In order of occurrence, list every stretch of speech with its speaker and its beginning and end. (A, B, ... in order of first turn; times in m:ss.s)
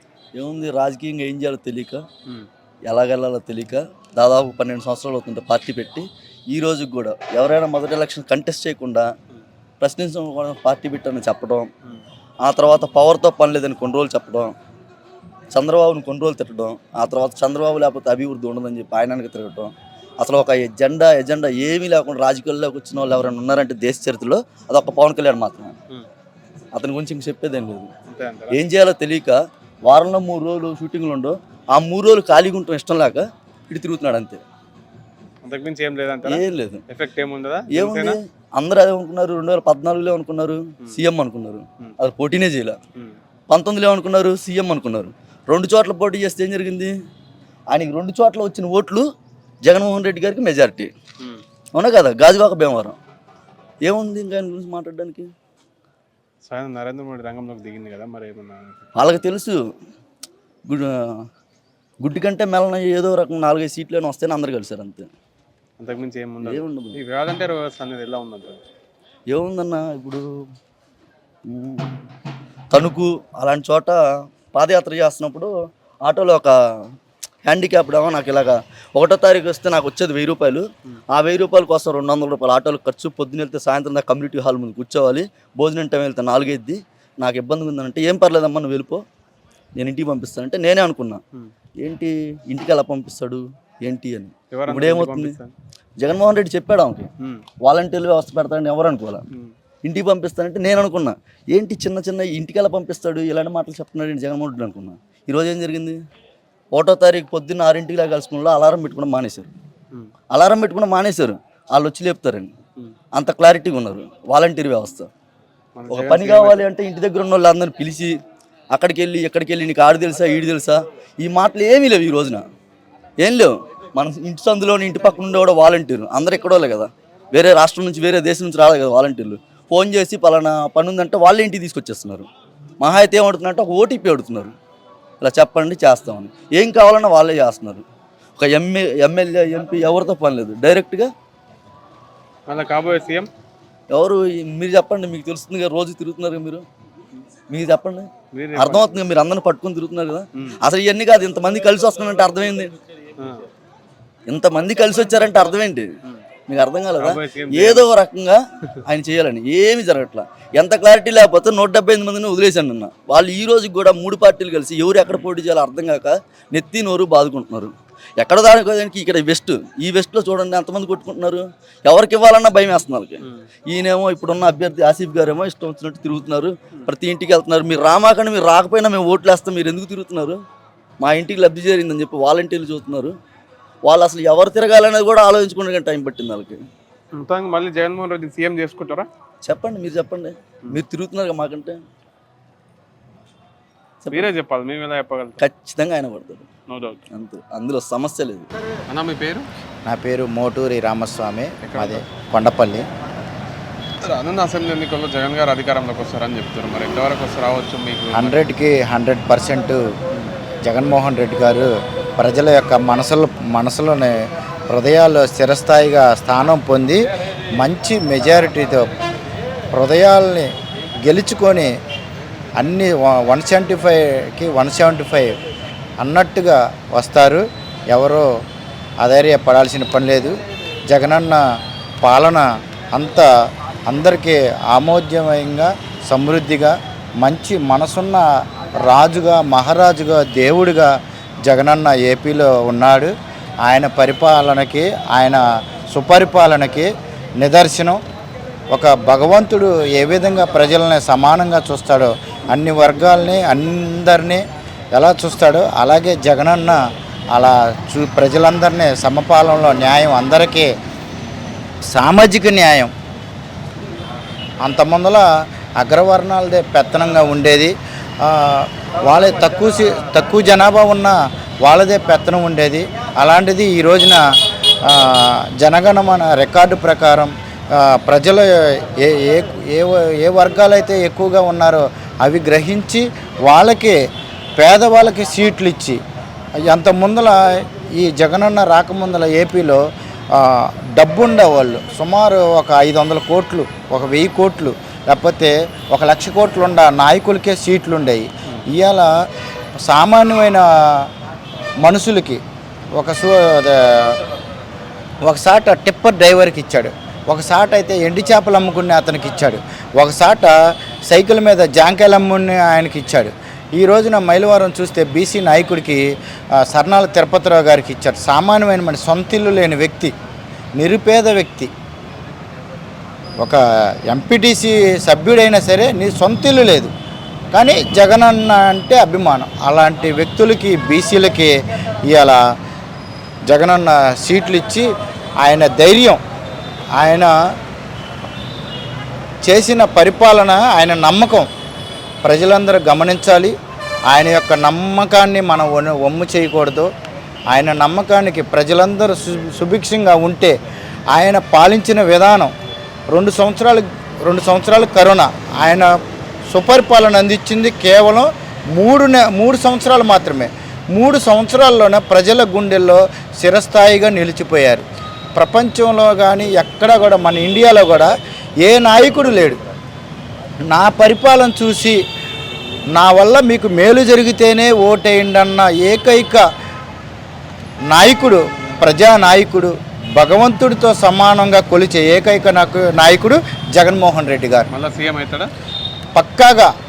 0:00.3-0:02.0 A
0:02.9-0:09.1 A
0:09.8-0:11.7 A
0:12.4-0:14.5 A
0:15.5-0:25.8 A
0:26.7-0:27.9 A
0:28.1-0:28.6 B
0:28.5-0:34.4 A
0:35.4-0:38.2 B
0:36.2-0:36.8 A
0:37.7-0:42.8 A
0:43.5-0:46.9 A
0:47.7-0:49.1 A
0:49.6-0:50.9 A
0:51.7-0:53.0 A
0:53.8-0:55.3 A
0:56.5-0:58.8 B
0:59.0-0:59.6 A
1:00.7-1:01.2 A
1:02.0-1:05.1 A
1:05.8-1:08.6 B
1:06.4-1:07.0 A
1:09.3-1:10.2 A
1:11.5-1:11.9 A
1:12.7-1:14.0 A
1:14.5-1:15.5 A
1:16.0-1:16.6 A
1:17.4-1:29.0 A
1:29.8-1:31.2 A
1:31.8-1:35.4 A
1:34.5-1:35.5 B
1:36.0-1:37.1 A
1:37.6-1:39.2 A
1:39.8-1:46.0 A
1:46.7-1:49.5 A
1:50.3-1:52.5 A
1:53.1-1:55.1 A
1:55.8-1:56.6 B
1:55.9-1:58.2 A
1:58.7-2:02.4 A
2:03.2-2:12.3 A
2:12.8-2:14.6 A
2:15.2-2:17.8 A
2:18.4-2:21.1 A
2:22.5-2:23.3 B
2:23.9-2:26.6 A
2:27.5-2:32.7 A
2:28.3-2:29.0 B
2:33.2-2:33.4 B
2:34.3-2:35.9 A
2:36.5-3:00.4 A
2:37.0-2:37.9 B
3:01.0-3:03.1 A
3:03.8-3:06.6 A
3:07.1-3:09.1 B
3:09.4-3:11.8 A
3:14.0-3:14.3 A
3:14.1-3:15.4 B
3:15.4-3:16.5 A
3:16.7-3:17.0 B
3:17.1-3:18.5 A
3:18.9-3:19.5 B
3:19.9-3:22.8 C
3:21.7-3:22.0 B
3:24.0-3:28.4 B
3:28.1-3:29.8 C
3:30.7-3:34.2 C
3:34.7-3:37.0 C
3:37.6-3:38.9 C
3:39.7-3:40.5 C
3:41.0-3:41.7 C
3:42.6-3:45.3 C
3:46.0-3:48.3 C
3:49.0-3:50.4 C
3:50.9-3:51.4 C
3:52.0-3:53.3 C
3:53.9-3:58.3 C
3:58.9-4:00.9 C
4:01.5-4:03.1 C
4:03.6-4:06.9 C
4:07.4-4:08.0 C
4:08.7-4:14.4 C
4:15.0-4:16.8 C
4:17.3-4:20.7 C
4:21.9-4:22.9 C
4:24.6-4:25.2 C
4:25.8-4:34.2 C
4:34.8-4:44.0 C
4:44.6-4:46.0 C
4:46.7-4:49.8 C
4:50.3-4:59.1 C
4:59.8-5:01.1 C
5:01.8-5:02.4 C
5:03.0-5:04.2 C
5:05.2-5:10.6 C
5:11.1-5:16.0 C
5:16.6-5:20.1 C
5:20.8-5:21.7 C
5:23.4-5:26.9 C
5:27.5-5:31.5 C
5:32.1-5:32.4 C
5:33.5-5:34.9 C
5:35.4-5:36.2 C
5:37.0-5:37.3 C
5:39.4-5:41.5 C
5:42.2-5:43.6 C
5:44.1-5:46.9 C
5:47.5-5:50.6 C
5:51.1-5:52.5 C
5:53.1-5:55.9 C
5:56.5-6:04.8 C
6:05.4-6:08.1 C
6:08.6-6:09.6 C
6:10.7-6:12.0 C
6:13.0-6:16.4 C
6:17.9-6:24.7 C
6:24.7-6:25.5 B
6:26.2-6:26.7 C